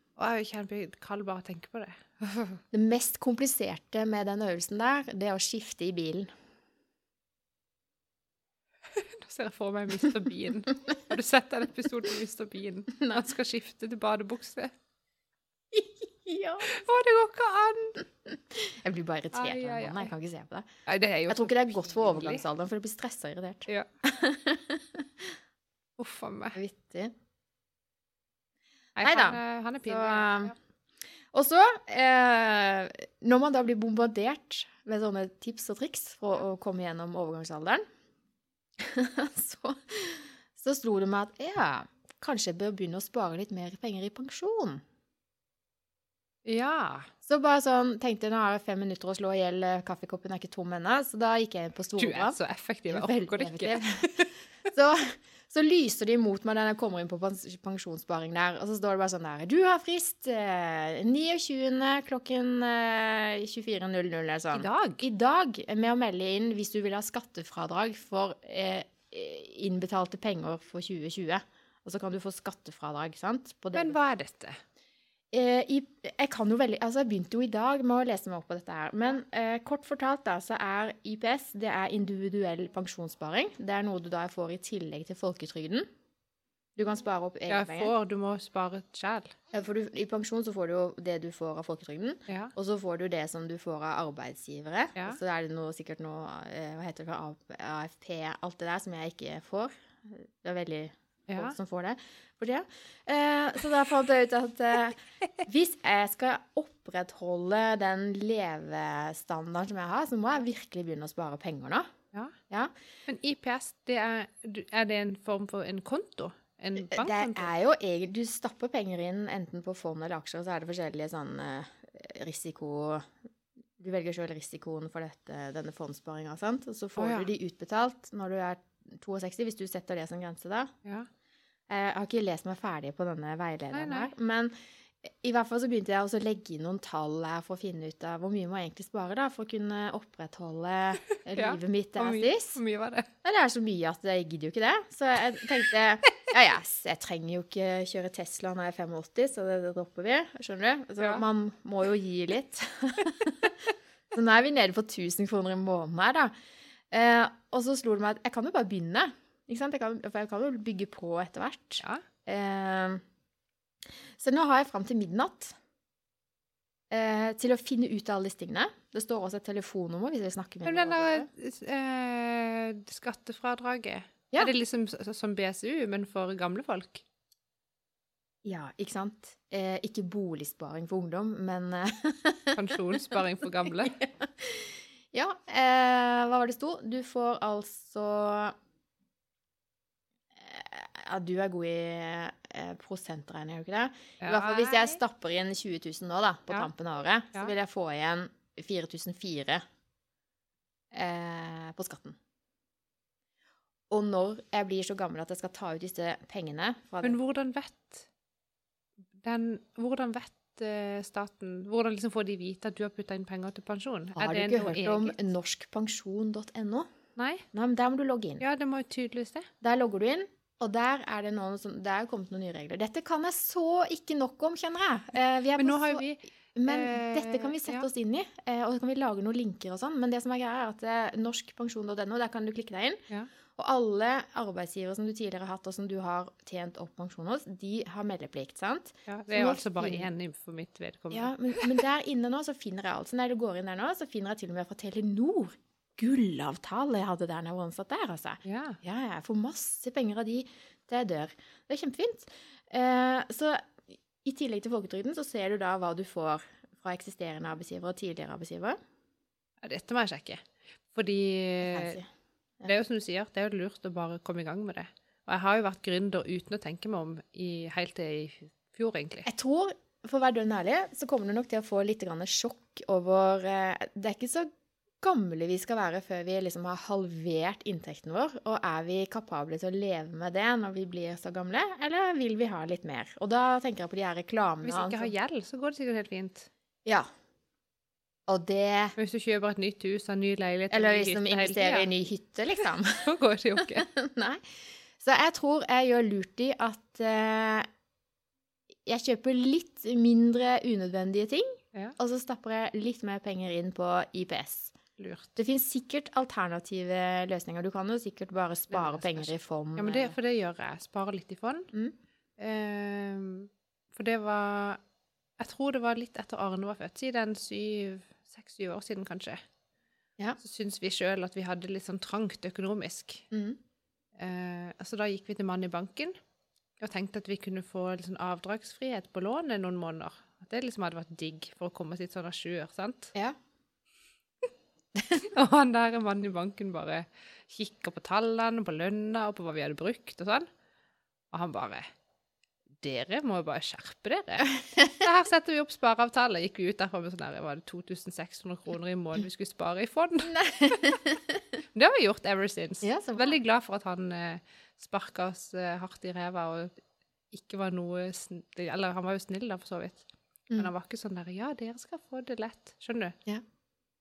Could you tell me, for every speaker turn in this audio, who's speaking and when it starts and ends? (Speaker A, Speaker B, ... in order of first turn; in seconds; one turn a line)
Speaker A: 0.2-2.6
Speaker B: 2.7-6.3
Speaker A: 8.9-14.7
Speaker B: 12.9-13.2
Speaker B: 15.7-16.8
Speaker A: 16.6-18.0
Speaker B: 18.2-20.7
Speaker A: 19.3-20.1
Speaker A: 20.9-22.4
Speaker B: 21.3-25.3
Speaker A: 26.0-26.6
Speaker B: 26.5-27.1
Speaker A: 28.9-30.5
Speaker B: 29.0-30.5
Speaker B: 31.3-37.8
Speaker B: 38.8-44.8
Speaker A: 46.4-47.1
Speaker B: 47.2-52.4
Speaker A: 52.0-54.3
Speaker B: 52.9-74.0
Speaker A: 64.5-65.0
Speaker A: 73.7-74.6
Speaker B: 75.3-85.9
Speaker B: 86.8-87.9
Speaker A: 87.5-89.3
Speaker B: 89.5-111.9
Speaker A: 101.3-101.5
Speaker A: 113.0-117.5
Speaker B: 116.8-123.1
Speaker B: 123.8-130.7
Speaker A: 127.0-127.3
Speaker B: 131.7-142.6
Speaker A: 133.7-134.1
Speaker A: 141.3-143.1
Speaker B: 143.2-153.6
Speaker A: 151.0-151.2
Speaker B: 154.1-156.3
Speaker B: 156.9-163.0
Speaker B: 164.2-165.6
Speaker B: 166.9-171.3
Speaker A: 170.6-177.0
Speaker B: 178.4-188.5
Speaker A: 182.5-184.0
Speaker B: 190.4-199.6
Speaker A: 194.2-195.0
Speaker B: 200.9-202.2
Speaker B: 203.9-207.2
Speaker A: 207.0-208.1
Speaker A: 209.1-215.2
Speaker B: 214.2-216.9
Speaker A: 217.2-217.4
Speaker B: 217.5-218.4
Speaker A: 218.4-219.5
Speaker B: 219.6-233.0
Speaker A: 225.6-227.9
Speaker B: 233.5-240.1
Speaker A: 239.1-241.8
Speaker B: 241.1-253.7
Speaker A: 248.4-248.8
Speaker B: 254.2-258.8
Speaker A: 259.6-260.4
Speaker A: 260.9-262.0
Speaker B: 261.6-262.1
Speaker A: 262.6-269.3
Speaker B: 269.2-274.5
Speaker B: 275.0-285.1
Speaker A: 284.6-286.5
Speaker B: 288.3-288.9
Speaker A: 289.0-291.9
Speaker B: 290.7-293.1
Speaker A: 292.6-293.9
Speaker B: 293.6-294.4
Speaker B: 295.0-297.7
Speaker B: 298.9-304.7
Speaker A: 305.0-305.4
Speaker B: 305.4-310.1
Speaker A: 308.7-311.7
Speaker A: 312.4-314.8
Speaker A: 315.4-319.4
Speaker A: 320.4-323.2
Speaker B: 323.3-323.6
Speaker A: 324.2-326.1
Speaker A: 326.8-333.1
Speaker A: 335.1-340.5
Speaker A: 341.3-341.9
Speaker A: 342.8-351.0
Speaker B: 350.3-351.2
Speaker A: 351.7-356.8
Speaker B: 352.8-353.4
Speaker A: 357.3-360.1
Speaker A: 360.6-363.2